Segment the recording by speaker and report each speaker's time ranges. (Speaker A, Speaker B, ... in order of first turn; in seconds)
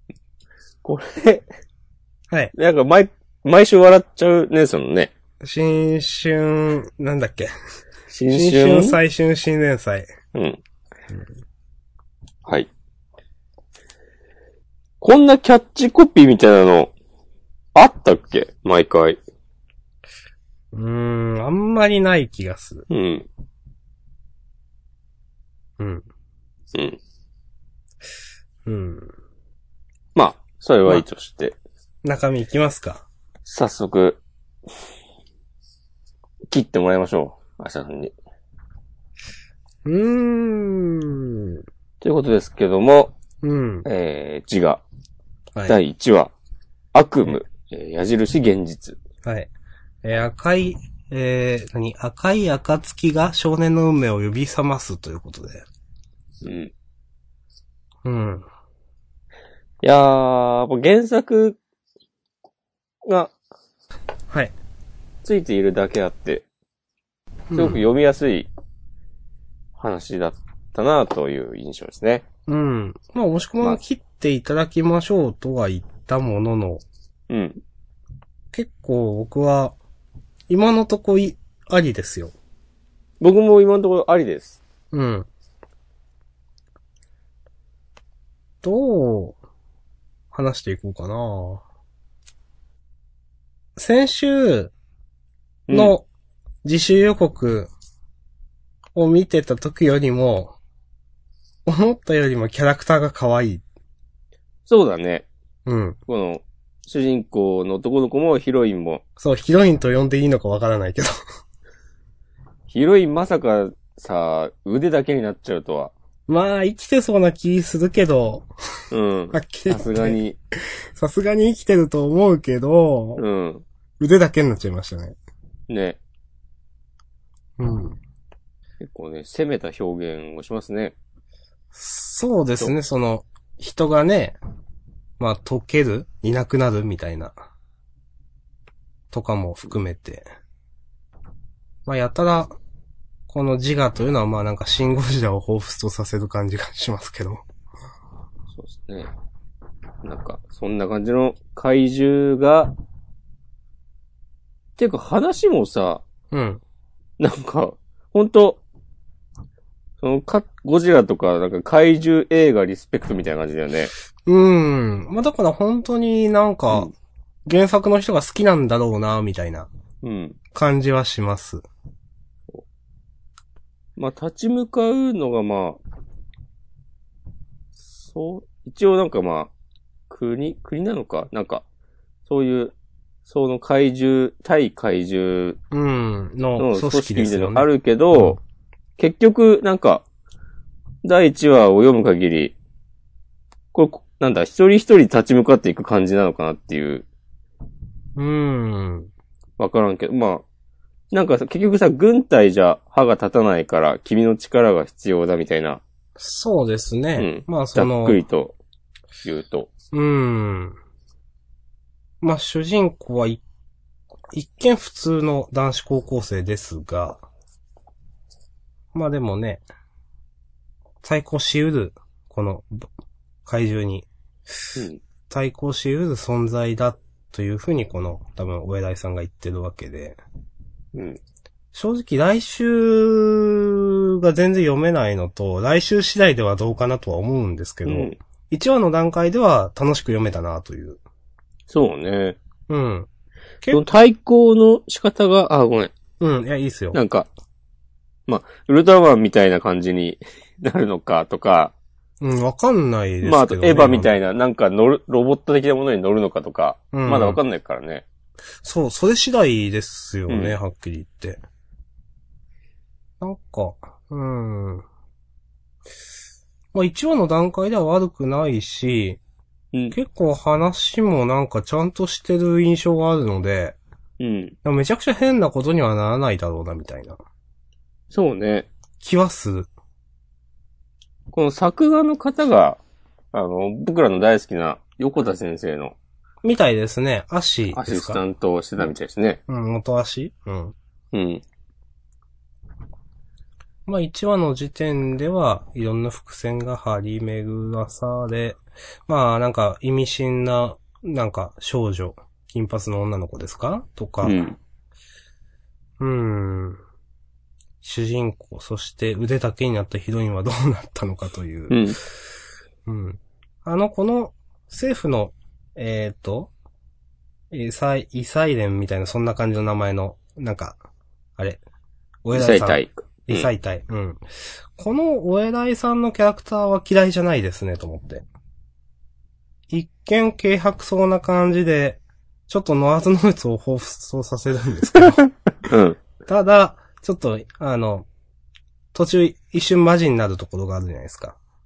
Speaker A: 0.8-1.4, 2.5-5.1, 8.1-9.0, 10.3-10.6, 15.0-16.9, 17.8-19.2, 22.9-23.3, 26.7-27.0, 30.1-31.6, 33.5-34.2, 36.5-38.1, 42.0-43.1, 43.8-44.8, 45.6-46.3, 46.9-49.0, 56.4-56.7, 59.8-61.6, 63.0-63.3, 65.2-66.5, 67.5-68.5, 69.8-72.2, 77.3-77.6, 83.2-84.6, 95.7-95.9, 104.7-105.3, 106.1-109.0, 112.7-115.9, 118.9-120.4, 123.2-123.6, 125.7-126.0, 128.8-130.9, 148.5-149.1, 150.0-152.7, 154.8-156.0, 157.2-158.6, 160.0-163.9, 170.0-170.4, 174.0-175.8, 177.9-179.5, 180.1-181.6, 182.3-182.7, 183.3-185.6, 186.6-188.4, 189.0-190.0, 191.0-192.5, 193.7-197.1, 199.6-200.4, 201.1-205.8, 207.2-208.6, 209.2-209.7, 224.8-225.0, 230.9-231.2, 237.8-238.2, 241.7-242.4, 243.7-245.9, 246.9-247.3, 248.3-251.7, 253.2-258.0, 260.3-260.6, 274.2-274.5, 278.1-278.7, 281.3-282.8, 283.3-285.9, 287.7-289.4, 291.1-291.4, 304.2-304.6, 311.7-312.0, 322.4-323.5, 335.6-336.0
Speaker B: 5.4-7.5, 8.3-10.1, 20.7-22.9, 25.8-26.1, 28.6-29.1, 32.0-33.0, 39.8-41.6, 43.4-43.9, 49.2-49.5, 50.0-55.6, 58.0-58.5, 67.5-67.8, 72.5-76.8, 78.5-79.8, 80.5-82.3, 84.9-85.3, 88.6-89.4, 90.3-91.6, 93.8-94.7, 95.7-96.0, 96.6-97.7, 98.9-100.5, 101.7-103.6, 105.7-106.0, 109.2-111.1, 116.3-118.5, 119.3-120.2, 120.9-123.2, 124.0-125.2, 127.6-128.0, 131.7-134.4, 135.2-137.4, 139.1-140.3, 141.9-142.6, 143.3-147.4, 156.3-156.6, 164.2-166.9, 167.4-169.7, 170.5-171.6, 185.7-188.4, 198.2-199.1, 206.2-208.2, 209.9-210.8, 212.2-213.4, 214.3-217.2, 218.9-219.6, 221.0-222.9, 223.4-224.1, 225.3-230.2, 231.7-241.0, 242.7-243.1, 246.2-247.0, 252.2-254.1, 256.9-257.4, 258.6-261.4, 263.2-264.9, 266.7-269.2, 269.9-273.8, 274.6-277.2, 279.0-279.7, 286.4-288.2, 289.5-290.8, 293.9-304.4, 306.0-306.8, 307.8-311.8, 312.9-316.5, 317.5-320.8, 322.2-324.2, 324.8-328.2, 329.7-335.2, 336.2-338.1, 338.9-341.4